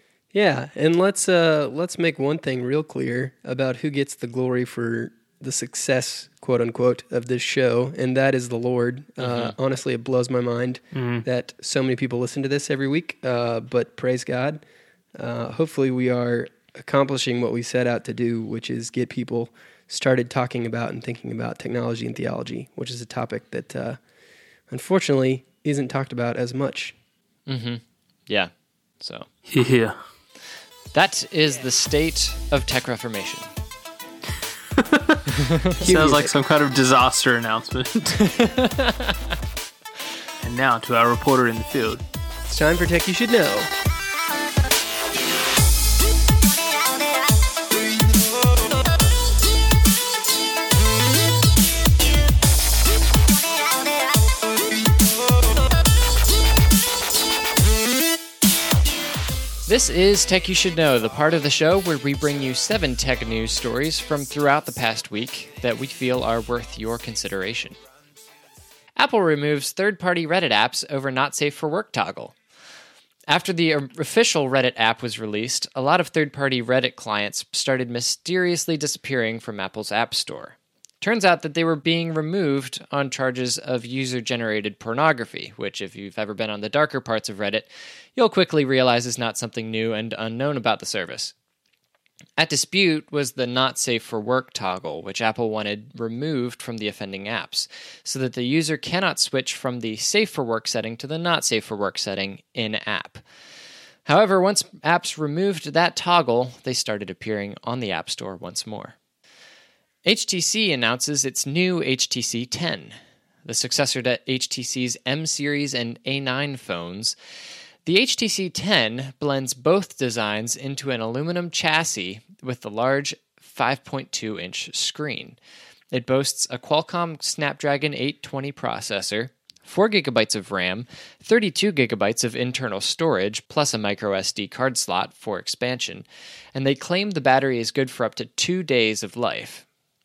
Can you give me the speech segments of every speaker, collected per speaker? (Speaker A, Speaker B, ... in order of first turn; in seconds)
Speaker A: 0.3-14.6, 15.2-24.0, 24.7-26.9, 35.8-36.3, 42.5-43.7
Speaker B: 9.2-9.6, 27.5-29.3, 30.9-33.5, 38.4-39.2, 59.7-67.8, 69.0-72.3, 73.3-91.3, 92.4-103.2, 104.0-108.9, 110.0-117.2, 117.8-125.4, 125.9-139.6
Speaker C: 10.9-11.2, 29.5-30.0, 34.8-35.2, 35.8-38.3, 40.4-42.0